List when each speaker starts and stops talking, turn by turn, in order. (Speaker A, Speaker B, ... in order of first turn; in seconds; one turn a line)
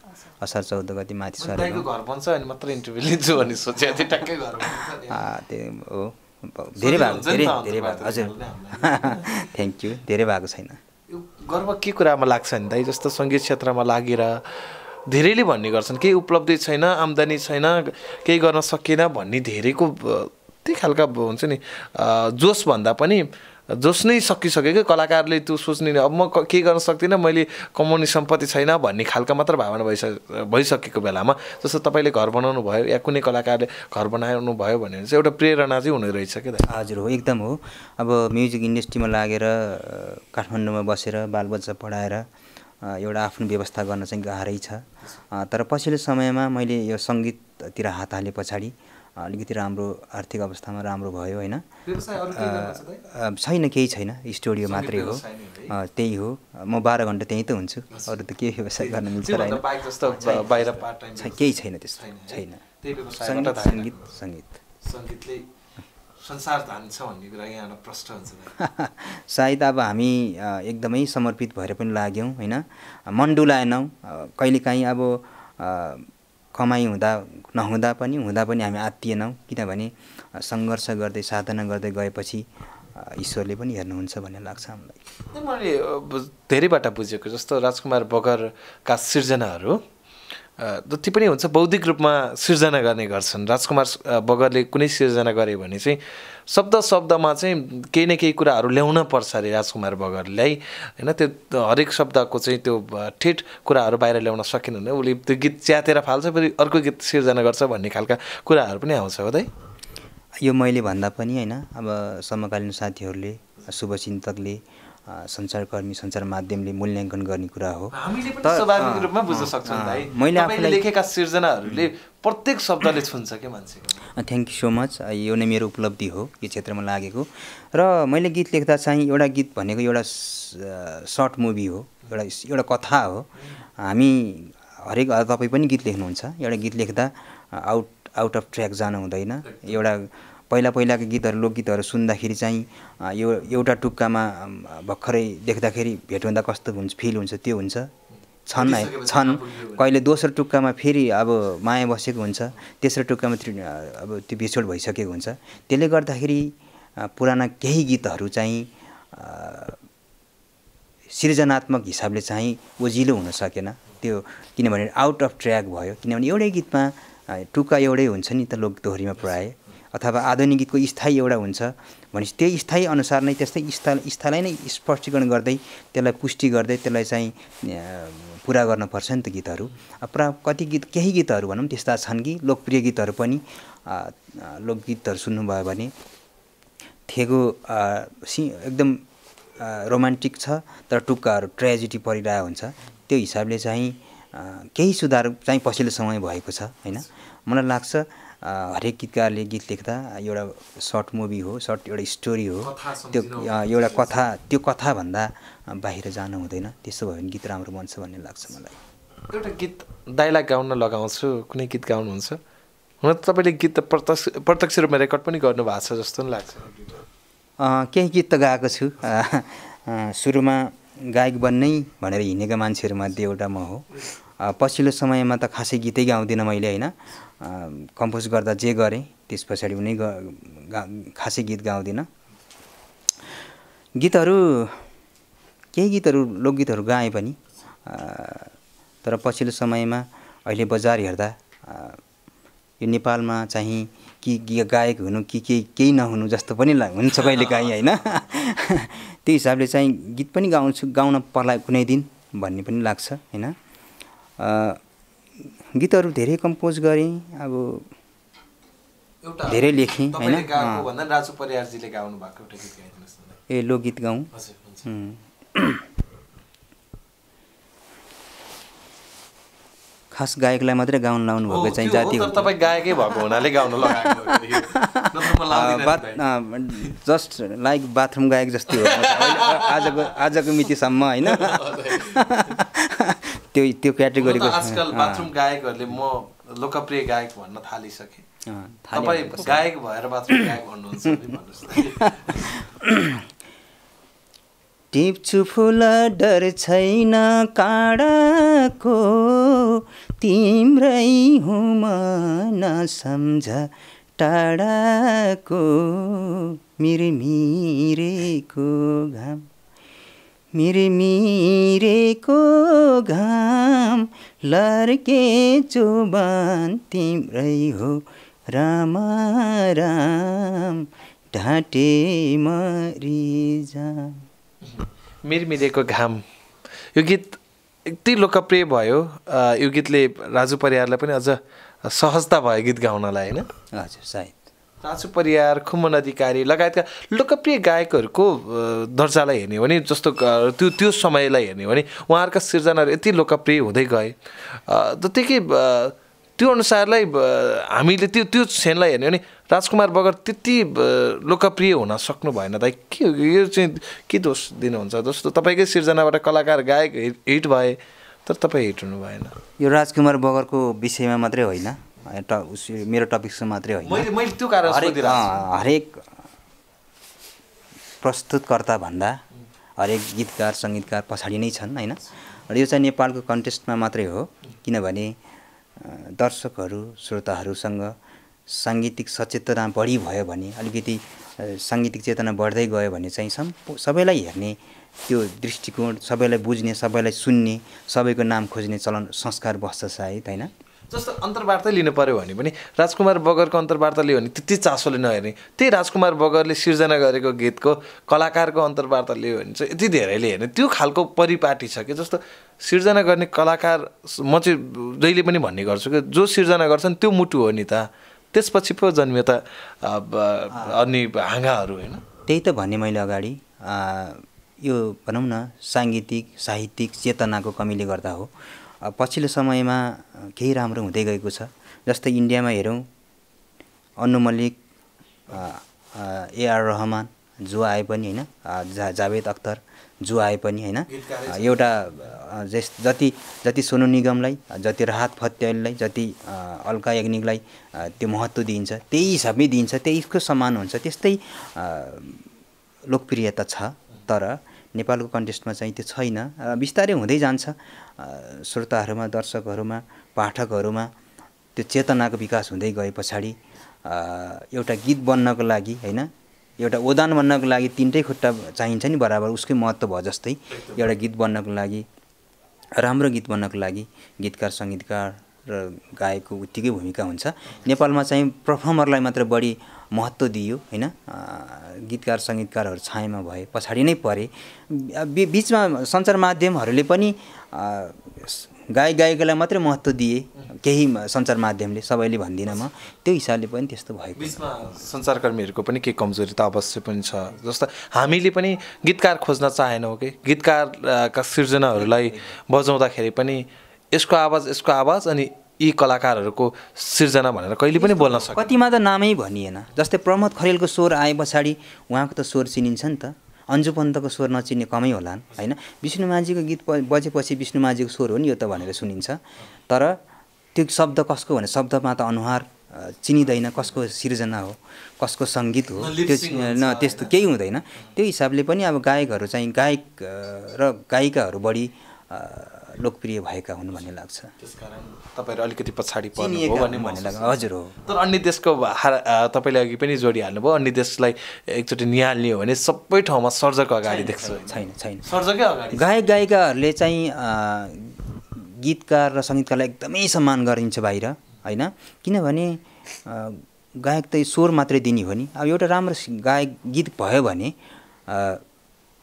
Speaker A: 0.4-1.9
Speaker B: 1.4-5.2
Speaker A: 5.1-10.8
Speaker B: 6.8-9.3
Speaker B: 11.1-36.7
Speaker A: 36.7-42.3
Speaker A: 42.8-51.6
Speaker B: 51.9-53.0
Speaker A: 52.3-62.6
Speaker B: 54.6-55.7
Speaker B: 58.8-64.1
Speaker A: 63.2-64.5
Speaker B: 64.8-65.4
Speaker B: 66.2-68.5
Speaker A: 68.6-85.0
Speaker B: 85.3-89.8
Speaker B: 90.6-109.5
Speaker A: 110.4-120.8
Speaker B: 117.9-124.0
Speaker A: 124.1-147.9
Speaker B: 139.4-139.7
Speaker A: 148.5-159.8
Speaker B: 148.6-149.8
Speaker A: 161.1-185.9
Speaker A: 187.1-189.0
Speaker A: 189.6-208.8
Speaker B: 202.6-204.2
Speaker B: 209.3-212.4
Speaker B: 213.0-217.0
Speaker A: 217.6-223.8
Speaker A: 224.4-232.1
Speaker A: 234.0-234.8
Speaker A: 235.7-238.5
Speaker A: 239.0-242.0
Speaker A: 242.8-253.6
Speaker B: 247.2-247.7
Speaker A: 254.4-254.8
Speaker A: 255.7-257.9
Speaker B: 259.2-263.4
Speaker A: 259.5-260.9
Speaker A: 263.5-264.3
Speaker B: 264.3-264.8
Speaker A: 264.9-265.8
Speaker A: 270.1-272.5
Speaker B: 271.5-276.2
Speaker A: 273.1-285.3
Speaker B: 278.7-280.1
Speaker B: 281.2-282.5
Speaker B: 284.2-288.2
Speaker A: 288.4-289.6
Speaker B: 288.9-292.6
Speaker A: 291.7-293.2
Speaker A: 294.9-309.4
Speaker A: 310.5-324.2
Speaker B: 324.6-326.2
Speaker B: 326.9-333.5
Speaker A: 333.7-334.4
Speaker B: 334.8-359.4
Speaker A: 359.6-364.1
Speaker B: 363.8-365.4
Speaker A: 364.6-366.1
Speaker A: 368.0-369.2
Speaker A: 369.8-375.1
Speaker A: 375.8-377.9
Speaker A: 378.5-390.5
Speaker B: 390.9-412.0
Speaker A: 410.5-410.8
Speaker A: 412.3-422.8
Speaker A: 424.0-424.6
Speaker A: 425.3-442.3
Speaker B: 430.9-432.1
Speaker A: 442.9-450.9
Speaker A: 451.6-461.9
Speaker B: 460.5-460.8
Speaker A: 462.8-484.4
Speaker B: 484.1-498.5
Speaker A: 491.8-492.2
Speaker A: 497.8-510.0
Speaker A: 510.5-524.3
Speaker B: 515.8-517.1
Speaker B: 524.4-536.0
Speaker A: 526.2-527.7
Speaker A: 533.8-535.1
Speaker A: 535.7-547.5
Speaker A: 548.1-548.4